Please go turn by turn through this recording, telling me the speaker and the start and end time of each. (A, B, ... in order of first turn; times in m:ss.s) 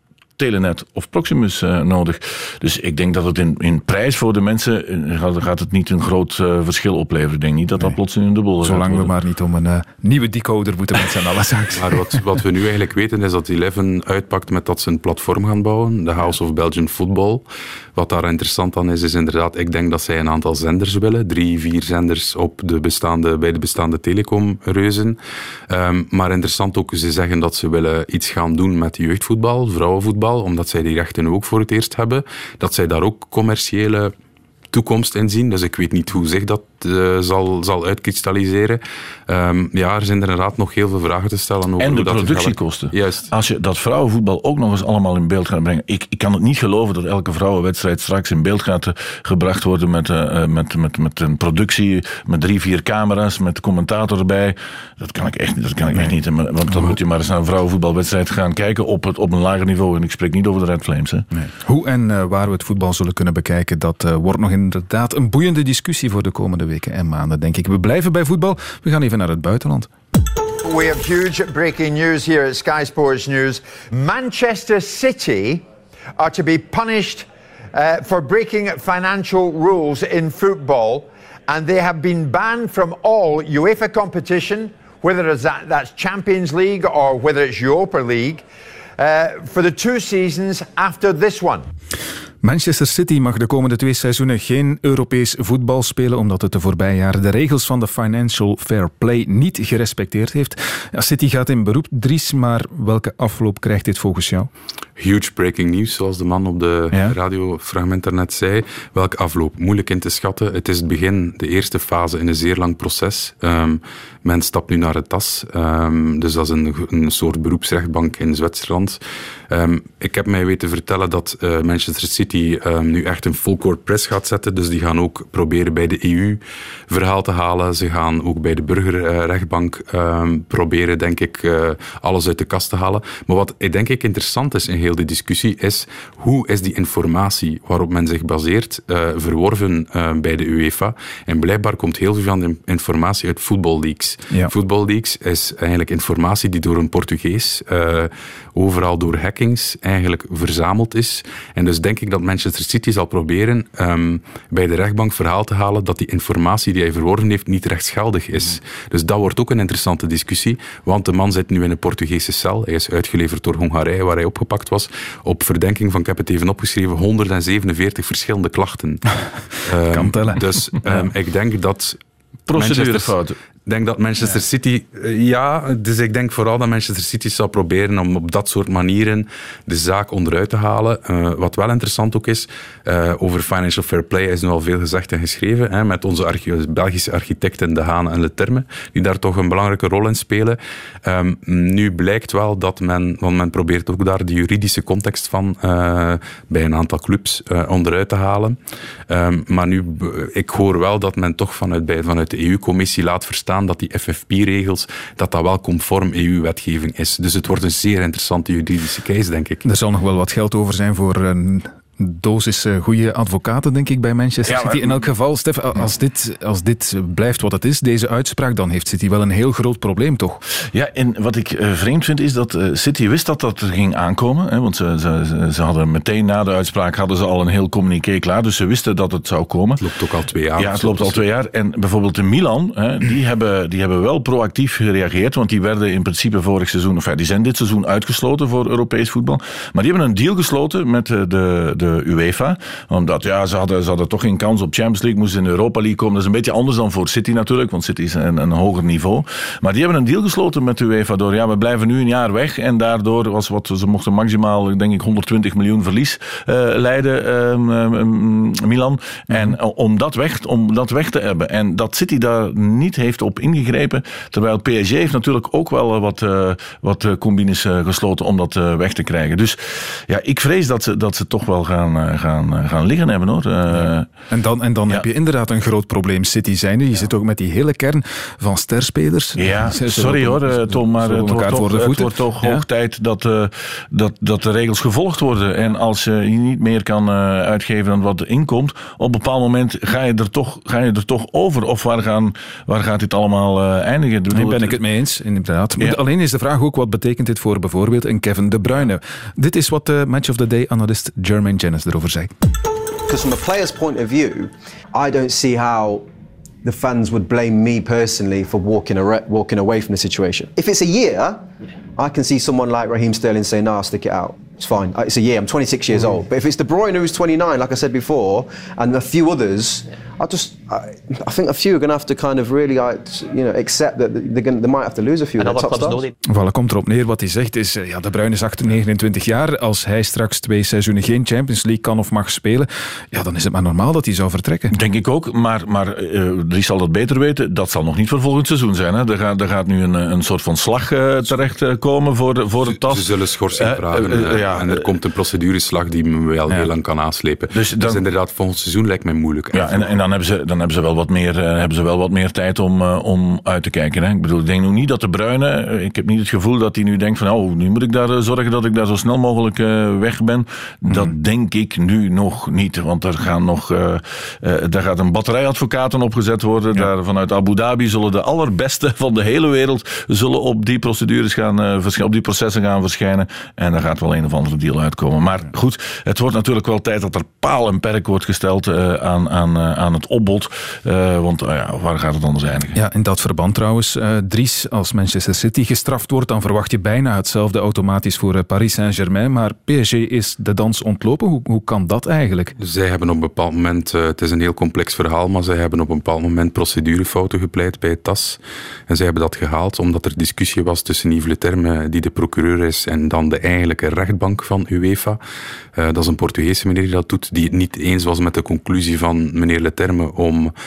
0:00.4-0:09.1 A
0:08.6-0:12.2 B
0:11.8-0:25.2 C
0:25.7-0:34.1 C
0:34.7-0:43.3 C
0:41.8-1:01.3 A
0:56.7-0:57.0 B
1:01.3-1:09.9 B
1:10.6-1:15.6 D
1:16.2-1:28.4 D
1:29.0-1:31.6 D
1:32.4-1:44.5 B
1:45.0-2:49.0 C
2:49.6-2:52.0 C
2:49.8-2:50.5 B
2:52.5-2:53.4 A
2:52.5-2:53.1 C
2:53.7-3:18.6 C
3:19.1-3:29.6 C
3:29.6-3:40.4 B
3:34.5-3:35.0 A
3:40.7-3:49.8 A
3:49.8-3:51.2 C
3:50.6-4:34.1 A
4:19.3-4:19.6 B
4:33.7-4:42.6 B
4:39.4-4:54.8 A
4:54.3-5:02.3 B
5:03.1-5:06.1 E
5:06.6-5:26.1 E
5:26.2-5:34.7 B
5:34.7-5:44.8 A
5:42.8-5:50.0 C
5:47.5-5:48.0 A
5:49.5-6:22.8 A
6:00.9-6:01.1 B
6:22.7-6:32.6 B
6:32.6-6:45.2 C
6:45.8-6:50.5 C